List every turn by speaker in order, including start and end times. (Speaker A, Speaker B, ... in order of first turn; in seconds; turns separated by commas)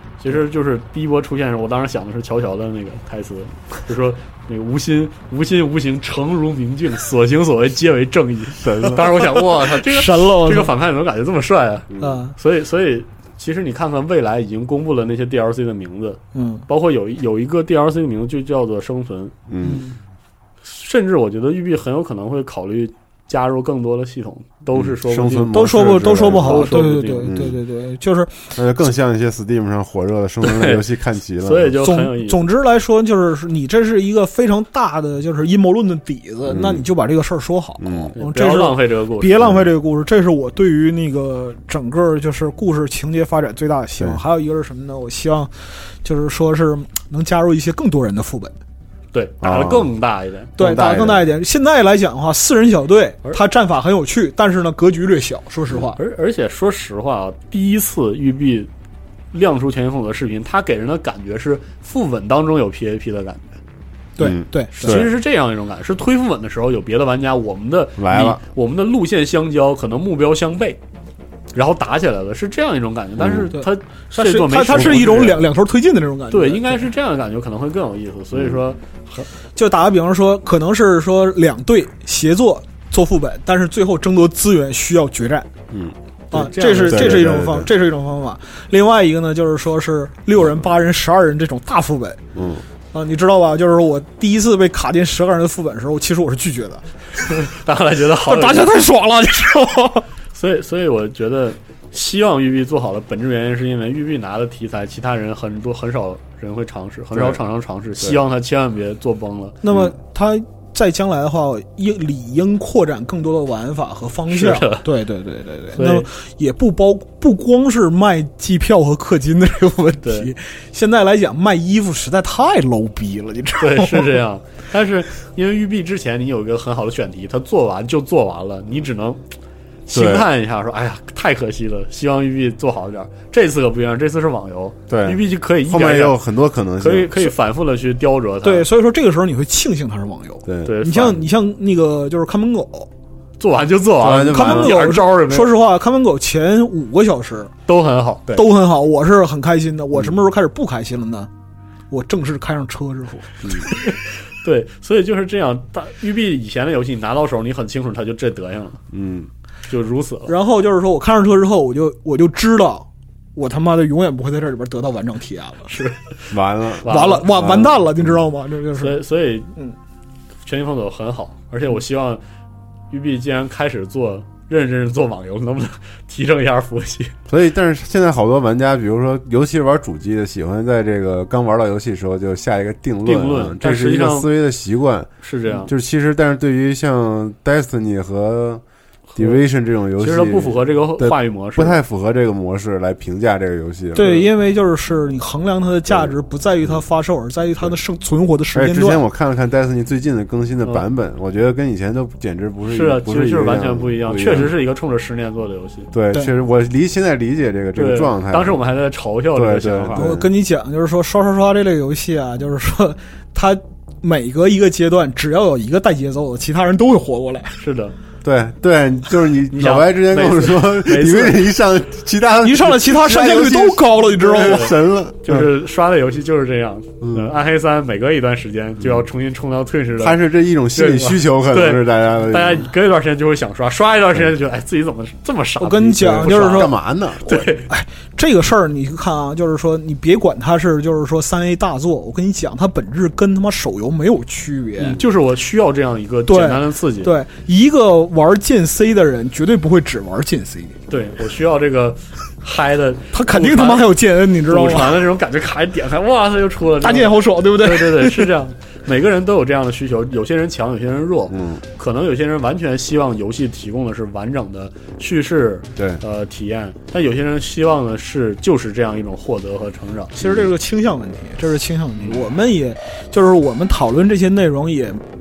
Speaker A: 0.2-19.3, Speaker B: 8.6-9.0, Speaker C: 9.8-10.7, Speaker B: 11.9-12.2, Speaker C: 12.0-12.3, Speaker C: 16.3-16.6, Speaker B: 19.5-19.9, Speaker C: 19.6-20.0, Speaker A: 20.6-27.3, Speaker B: 24.7-27.6, Speaker C: 25.5-28.5, Speaker B: 28.5-31.8, Speaker A: 30.4-30.8, Speaker A: 31.4-32.4, Speaker C: 31.8-45.5, Speaker B: 36.5-36.9, Speaker B: 37.8-38.1, Speaker A: 38.1-39.3, Speaker C: 46.0-48.5, Speaker A: 49.1-50.5, Speaker B: 49.4-49.9, Speaker B: 50.6-51.3, Speaker C: 50.6-56.0, Speaker A: 56.0-58.7, Speaker A: 59.3-63.6, Speaker C: 64.2-65.0, Speaker B: 64.2-65.1, Speaker A: 64.8-70.8, Speaker B: 68.0-68.4, Speaker A: 71.5-75.4, Speaker B: 73.2-73.5, Speaker C: 73.5-76.8, Speaker B: 74.7-75.0, Speaker A: 76.3-79.3, Speaker C: 79.5-85.5, Speaker A: 86.3-87.3, Speaker C: 86.3-92.2, Speaker B: 86.7-87.7, Speaker B: 92.3-92.6, Speaker C: 92.9-97.3, Speaker A: 97.3-98.7, Speaker C: 98.2-100.1, Speaker A: 100.3-109.6, Speaker C: 109.6-124.2, Speaker A: 114.3-114.8, Speaker A: 115.7-116.1, Speaker A: 120.0-120.3, Speaker A: 123.6-129.2, Speaker A: 129.9-136.2, Speaker B: 129.9-130.3, Speaker B: 134.9-137.3, Speaker A: 136.8-138.7, Speaker C: 138.4-142.9, Speaker B: 140.4-140.8, Speaker A: 140.6-141.2, Speaker A: 143.4-145.5, Speaker B: 144.0-144.8, Speaker C: 144.3-147.5, Speaker A: 147.7-148.4, Speaker C: 148.3-151.3, Speaker C: 151.9-153.9, Speaker A: 154.4-158.8, Speaker B: 158.9-159.3, Speaker A: 159.7-160.3, Speaker C: 160.3-165.7, Speaker A: 165.7-167.3, Speaker B: 166.3-168.2, Speaker C: 166.8-169.0, Speaker A: 168.8-169.5, Speaker A: 170.4-172.2, Speaker A: 172.9-177.1, Speaker B: 177.3-185.1, Speaker A: 183.0-184.3, Speaker A: 185.2-185.7, Speaker B: 185.6-188.6, Speaker A: 189.1-189.4, Speaker B: 189.2-194.3, Speaker A: 190.0-191.8, Speaker C: 193.9-199.0, Speaker B: 195.9-196.8, Speaker B: 198.5-204.5, Speaker A: 202.7-205.9, Speaker B: 205.9-208.6, Speaker A: 207.7-210.1, Speaker B: 209.3-210.2, Speaker C: 209.9-217.6, Speaker A: 217.6-217.9, Speaker B: 218.2-225.5, Speaker A: 219.5-221.5, Speaker C: 222.4-224.8, Speaker A: 224.4-236.7, Speaker B: 227.0-227.3, Speaker B: 229.9-232.7, Speaker C: 235.6-236.8, Speaker B: 236.0-237.5, Speaker A: 237.2-237.7, Speaker C: 237.7-245.0, Speaker A: 244.8-247.1, Speaker C: 246.2-250.8, Speaker A: 250.9-253.9, Speaker C: 253.1-255.0, Speaker A: 254.4-270.1, Speaker C: 256.8-258.3, Speaker B: 261.3-261.6, Speaker C: 270.1-275.0, Speaker B: 270.2-270.5, Speaker A: 272.0-272.2